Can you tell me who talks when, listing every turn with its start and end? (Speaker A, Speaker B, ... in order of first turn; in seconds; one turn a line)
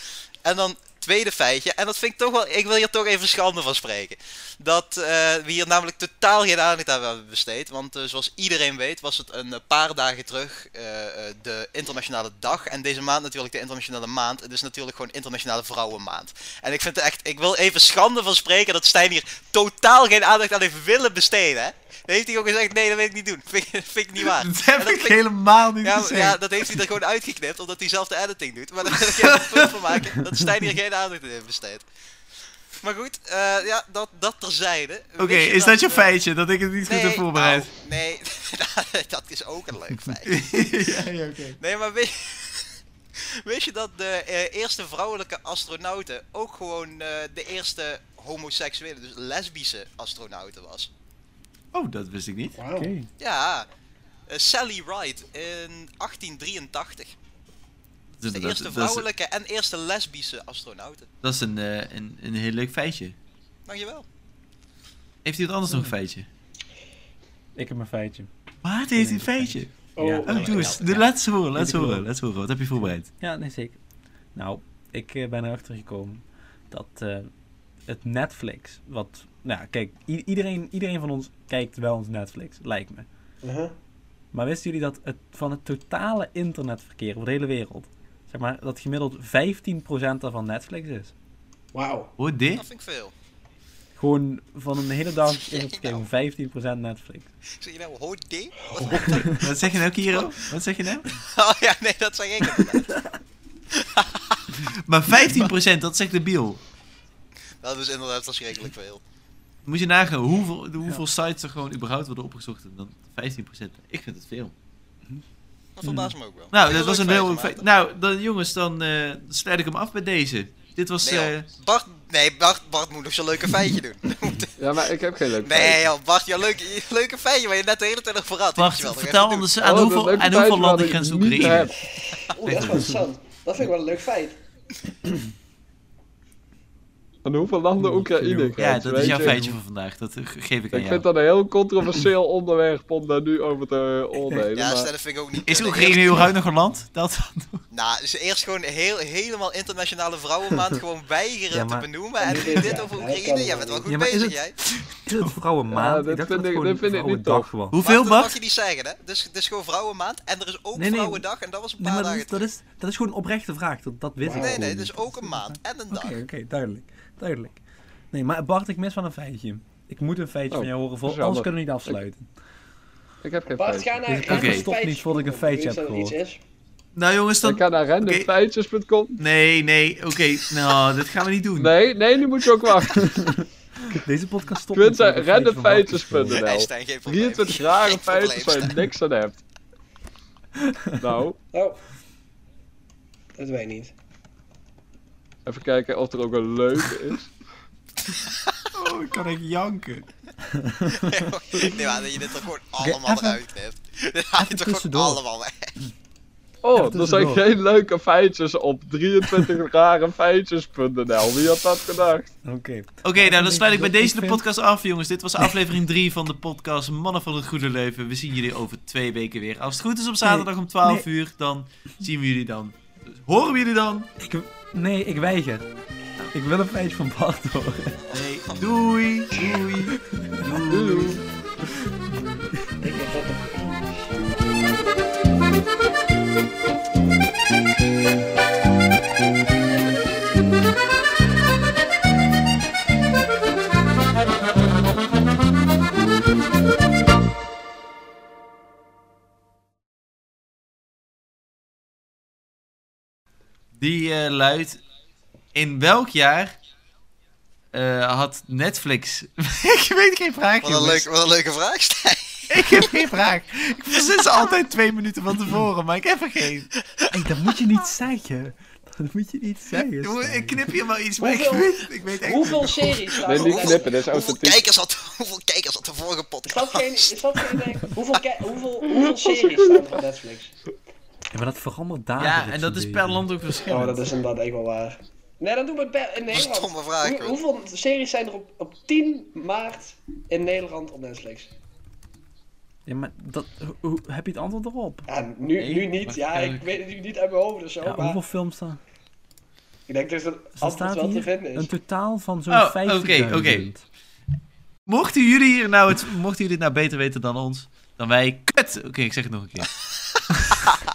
Speaker A: 0.4-25.2
Speaker B: 24.2-26.7
Speaker A: 25.8-31.9
Speaker B: 28.9-30.1
Speaker A: 32.8-36.1
Speaker B: 35.2-37.7
Speaker A: 36.9-40.4
Speaker B: 40.2-41.6
Speaker A: 41.6-42.7
Speaker A: 43.4-50.9
Speaker B: 51.7-52.6
Speaker C: 52.6-52.9
Speaker D: 52.7-53.1
Speaker A: 53.2-53.6
Speaker A: 54.3-57.1
Speaker B: 58.1-59.1
Speaker A: 58.3-61.1
Speaker B: 61.2-63.1
Speaker A: 63.7-64.0
Speaker B: 65.2-66.3
Speaker D: 65.7-65.9
Speaker D: 67.5-68.3
Speaker B: 68.6-69.7
Speaker D: 68.9-71.0
Speaker C: 70.0-70.8
Speaker B: 70.3-73.1
Speaker A: 70.3-71.0
Speaker D: 71.5-72.1
Speaker D: 72.8-73.8
Speaker D: 74.3-77.3
Speaker D: 77.9-83.1
Speaker C: 83.4-83.7
Speaker D: 84.3-91.1
Speaker C: 91.7-92.1
Speaker B: 92.2-92.6
Speaker A: 92.5-93.1
Speaker D: 94.0-97.3
Speaker A: 95.3-96.0
Speaker A: 97.6-100.5
Speaker C: 98.7-99.3
Speaker B: 99.4-101.1
Speaker A: 101.1-103.0
Speaker A: 103.7-104.6
Speaker B: 104.9-106.6
Speaker A: 105.2-105.5
Speaker A: 107.6-109.0
Speaker B: 109.6-114.5
Speaker A: 115.8-117.6
Speaker D: 115.8-116.1
Speaker B: 116.5-121.5
Speaker A: 121.0-124.5
Speaker E: 124.6-125.9
Speaker A: 125.4-129.6
Speaker B: 128.6-131.7
Speaker E: 129.6-131.7
Speaker C: 131.8-134.4
Speaker B: 132.4-133.1
Speaker D: 132.6-132.9
Speaker E: 137.2-139.4
Speaker D: 137.8-139.6
Speaker B: 138.6-141.1
Speaker E: 140.7-144.9
Speaker A: 144.6-146.3
Speaker B: 145.4-147.6
Speaker A: 147.7-154.6
Speaker D: 151.5-152.7
Speaker C: 152.2-153.9
Speaker D: 153.9-157.8
Speaker B: 154.7-155.3
Speaker E: 155.7-157.5
Speaker B: 157.7-158.4
Speaker A: 157.8-162.5
Speaker D: 160.8-161.2
Speaker D: 161.8-167.6
Speaker C: 164.2-164.6
Speaker A: 164.3-166.2
Speaker D: 168.1-172.3
Speaker E: 170.5-172.0
Speaker E: 173.2-173.9
Speaker C: 173.6-176.4
Speaker D: 174.1-176.2
Speaker B: 174.3-174.7
Speaker B: 176.9-178.3
Speaker E: 177.4-179.2
Speaker B: 179.2-181.7
Speaker E: 181.6-183.1
Speaker D: 182.9-186.4
Speaker E: 184.7-189.4
Speaker A: 186.3-188.7
Speaker D: 190.6-191.2
Speaker E: 191.0-191.4
Speaker C: 191.5-191.8
Speaker C: 193.4-193.9
Speaker E: 195.4-197.3
Speaker A: 198.2-198.6
Speaker B: 198.8-200.1
Speaker D: 199.1-199.5
Speaker D: 200.4-201.8
Speaker A: 200.9-205.7
Speaker D: 202.8-203.4
Speaker D: 204.4-205.2
Speaker E: 206.6-212.3
Speaker D: 206.8-207.4
Speaker D: 212.4-214.4
Speaker B: 213.0-224.1
Speaker D: 220.2-221.1
Speaker D: 224.2-225.7
Speaker D: 226.3-228.0
Speaker B: 228.1-231.2
Speaker D: 230.0-230.6
Speaker E: 230.7-231.2
Speaker D: 232.1-232.9
Speaker C: 232.8-234.1
Speaker B: 253.8-254.8
Speaker B: 255.5-256.6
Speaker B: 257.7-261.1
Speaker A: 260.6-263.0
Speaker B: 262.5-266.7
Speaker D: 267.1-270.6
Speaker B: 270.0-273.1
Speaker C: 271.2-274.0
Speaker E: 273.2-274.6
Speaker A: 273.3-277.2
Speaker C: 276.5-280.6
Speaker E: 278.9-279.9
Speaker D: 281.3-284.0
Speaker B: 282.2-284.1
Speaker C: 283.7-291.5
Speaker A: 286.3-287.4
Speaker D: 292.9-295.1
Speaker C: 295.1-298.2
Speaker B: 295.6-296.8
Speaker D: 297.8-298.8
Speaker C: 299.9-301.7
Speaker D: 300.6-303.8
Speaker B: 302.5-303.7
Speaker B: 304.9-309.7
Speaker B: 310.4-310.6